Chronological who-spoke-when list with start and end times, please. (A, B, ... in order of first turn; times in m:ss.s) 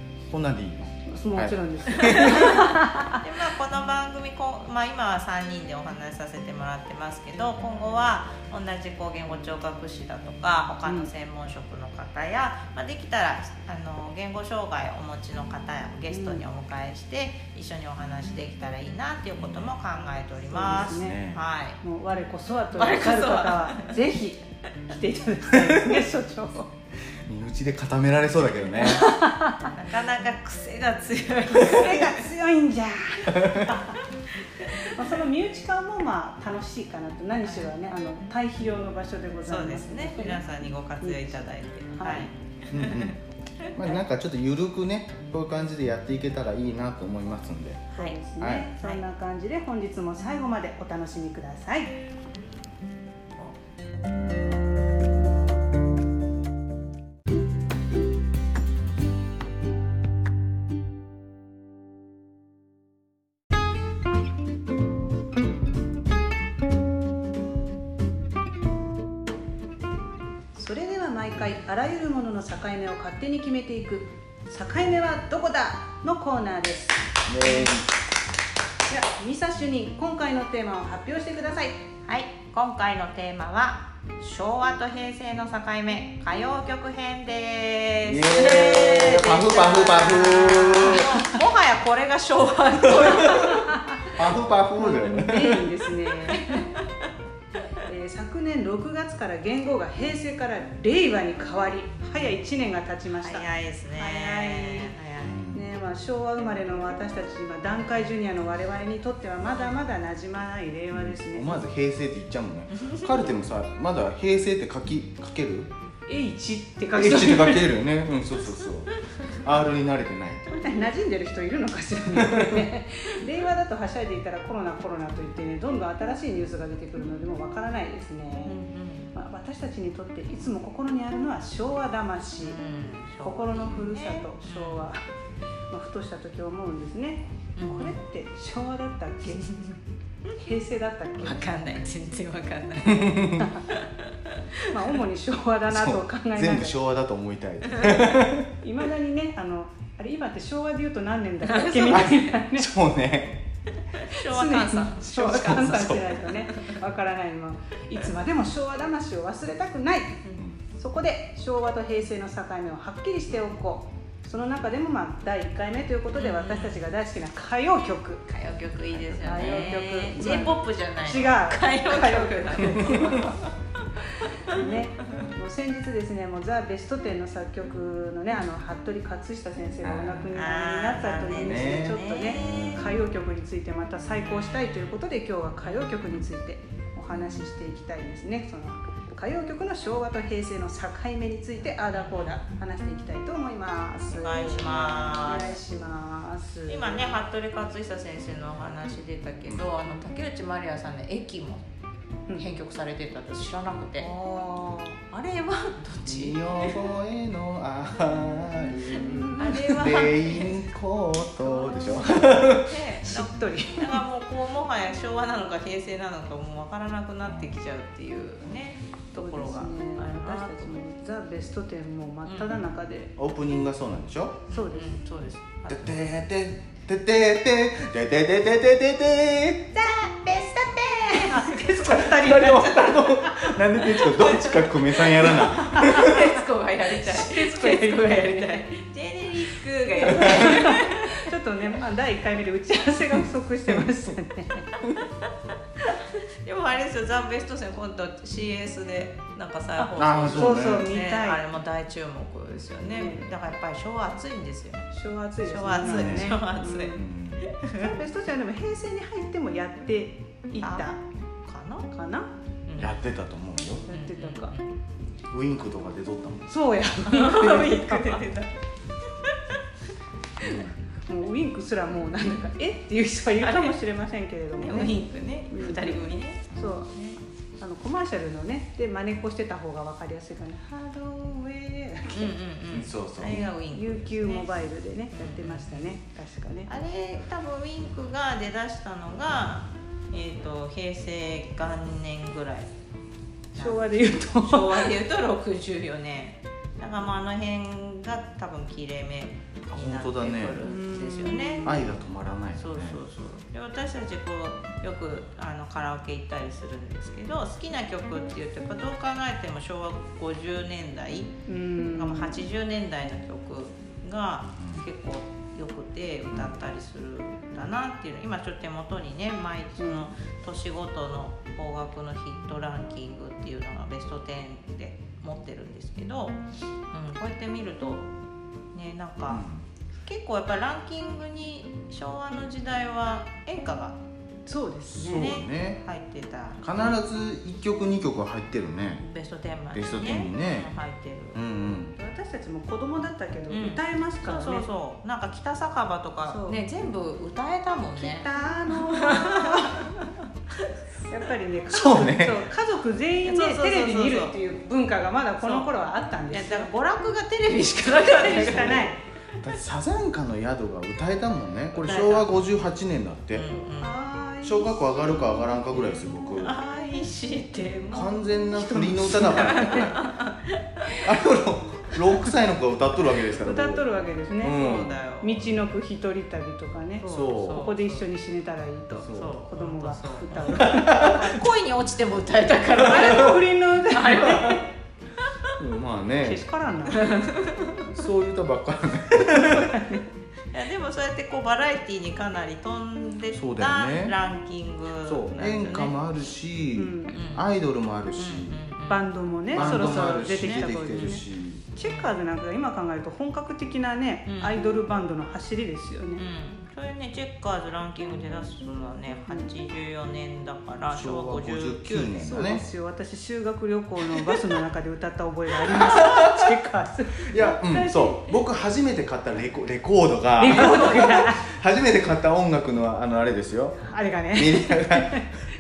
0:00.2-0:02.5 A
0:01.0-0:03.2 B
0:02.0-0:21.8 C
0:10.8-0:11.1 B
0:16.1-0:16.4 B
0:19.4-0:19.7 A
0:20.5-0:21.2 B
0:20.6-0:21.4 A
0:21.8-0:26.7 B
0:22.8-0:23.9 C
0:25.5-0:26.0 A
0:27.2-0:29.1 A
0:28.8-0:29.7 B
0:29.7-0:32.3 C
0:31.5-0:34.0 B
0:33.3-0:33.7 A
0:34.6-0:40.4 B
0:37.4-0:37.7 C
0:39.4-0:43.7 C
0:41.0-0:42.3 B
0:42.7-0:43.2 A
0:43.7-0:48.7 A
0:47.9-0:51.9 B
1:10.5-1:17.8 B
1:17.3-1:17.9 A
1:18.9-1:21.8 B
1:22.0-1:33.7 C
1:28.0-1:31.2 A
1:32.9-1:33.5 A
1:33.3-1:34.1 B
1:34.1-1:35.6 A
1:34.8-1:36.7 B
1:37.8-1:44.9 B
1:43.2-1:45.4 C
1:45.2-1:45.7 A
1:45.5-1:51.6 B
1:50.9-1:55.7 A
1:52.8-1:53.1 C
1:56.1-1:57.7 B
1:56.9-2:00.6 A
2:00.5-2:08.6 B
2:02.1-2:02.7 A
2:08.4-2:09.1 C
2:09.1-2:12.6 B
2:12.4-2:14.9 C
2:13.2-2:15.0 B
2:15.7-2:19.5 B
2:17.6-2:18.0 C
2:19.4-2:19.7 C
2:20.4-2:21.4 B
2:21.2-2:24.6 C
2:22.8-2:23.5 A
2:23.4-2:23.7 B
2:24.7-2:26.8 B
2:25.7-2:28.5 A
2:27.6-2:28.1 C
2:27.9-2:32.7 B
2:31.4-2:32.2 C
2:31.9-2:33.4 A
2:34.0-2:36.8 C
2:34.1-2:40.2 B
2:35.3-2:36.0 A
2:40.7-2:48.2 B
2:46.2-2:46.9 C
2:48.3-2:53.5 C
2:48.9-2:49.7 A
2:49.2-2:53.4 B
2:52.9-2:53.2 A
2:54.1-3:17.2 B
2:59.8-3:00.2 A
3:00.3-3:03.0 C
3:01.3-3:02.9 A
3:04.2-3:05.0 C
3:05.6-3:06.0 C
3:11.9-3:12.4 C
3:14.1-3:15.6 C
3:14.7-3:15.4 A
3:16.7-3:21.6 C
3:22.4-3:24.1 C
3:24.0-3:26.0 B
3:25.6-3:26.9 C
3:26.0-3:32.8 A
3:29.0-3:29.9 B
3:29.4-3:30.6 C
3:31.5-3:34.0 B
3:31.7-3:40.8 C
3:39.2-3:43.1 B
3:42.2-3:42.6 C
3:43.2-3:44.4 A
3:44.5-3:45.0 B
3:44.5-3:45.9 C
3:45.7-3:49.8 A
3:49.8-3:51.7 C
3:50.8-3:54.0 B
3:51.8-3:56.3 A
3:54.0-4:01.3 C
3:55.2-3:56.4 B
3:56.9-3:58.6 B
4:00.0-4:04.7 B
4:05.2-4:14.9 C
4:09.8-4:11.4 B
4:10.0-4:10.9 A
4:12.9-4:13.3 B
4:14.9-4:17.0 B
4:15.4-4:18.0 C
4:15.8-4:16.4 A
4:17.0-4:17.4 A
4:17.7-4:21.0 B
4:20.6-4:21.9 C
4:21.9-4:22.3 B
4:22.6-4:22.9 C
4:22.8-4:23.9 A
4:23.9-4:24.5 B
4:23.9-4:24.7 C
4:25.3-4:26.5 A
4:26.5-4:28.2 B
4:27.0-4:28.5 C
4:30.4-4:30.7 A
4:31.1-4:36.9 B
4:33.4-4:33.7 C
4:34.6-4:37.2 C
4:37.6-4:42.3 B
4:42.1-4:44.6 C
4:42.7-4:43.5 A
4:43.7-4:46.7 B
4:45.1-4:45.9 C
4:46.7-4:52.7 C
4:53.5-4:54.9 B
4:53.5-5:01.9 C
4:59.7-5:00.6 A
5:00.6-5:01.9 B
5:01.6-5:03.0 A
5:02.5-5:28.1 C
5:11.5-5:12.4 B
5:14.6-5:14.8 A
5:16.3-5:16.6 A
5:19.8-5:20.1 B
5:28.7-5:29.4 C
5:29.3-5:29.6 A
5:30.0-5:34.0 C
5:34.5-5:35.3 B
5:34.9-5:35.8 A
5:35.1-5:37.0 C
5:36.6-5:39.0 A
5:39.0-5:41.4 C
5:39.7-5:40.7 A
5:41.3-5:41.9 A
5:42.0-5:44.7 B
5:43.5-5:50.7 C
5:46.3-5:46.6 B
5:47.9-5:50.0 B
5:51.1-5:56.7 B
5:51.7-5:52.5 A
5:53.2-5:54.4 C
5:55.4-5:55.7 C
5:56.3-5:58.9 C
5:57.8-5:59.0 B
5:58.5-5:58.9 A
5:59.4-6:03.5 A
6:01.7-6:02.3 C
6:03.3-6:04.0 C
6:03.8-6:05.5 B
6:04.4-6:06.6 A
6:05.7-6:08.2 C
6:07.9-6:10.0 A
6:08.5-6:10.0 B
6:09.2-6:11.0 C
6:11.0-6:13.8 A
6:13.4-6:21.4 B
6:14.4-6:15.0 A
6:14.5-6:15.4 C
6:17.0-6:18.1 C
6:17.0-6:17.7 A
6:19.0-6:19.4 A
6:19.1-6:24.7 C
6:20.6-6:21.4 A
6:22.8-6:24.7 B
6:22.9-6:23.3 A
6:25.6-6:26.4 A
6:26.2-6:27.4 B
6:26.9-6:27.9 C
6:27.9-6:29.8 A
6:29.5-6:30.0 B
6:30.5-6:36.0 C
6:33.3-6:34.2 A
6:35.0-6:38.6 A
6:36.7-6:37.2 B
6:37.1-6:37.5 C
6:38.1-6:41.2 C
6:38.9-6:46.2 B
6:39.5-6:41.6 A
6:41.8-6:42.2 C
6:44.3-6:44.6 C
6:46.2-6:52.2 C
6:50.9-6:52.6 A
6:52.2-6:58.3 B
6:56.0-6:56.3 A
6:57.2-7:05.3 A
7:00.4-7:01.5 B
7:00.5-7:01.1 C
7:03.9-7:05.3 B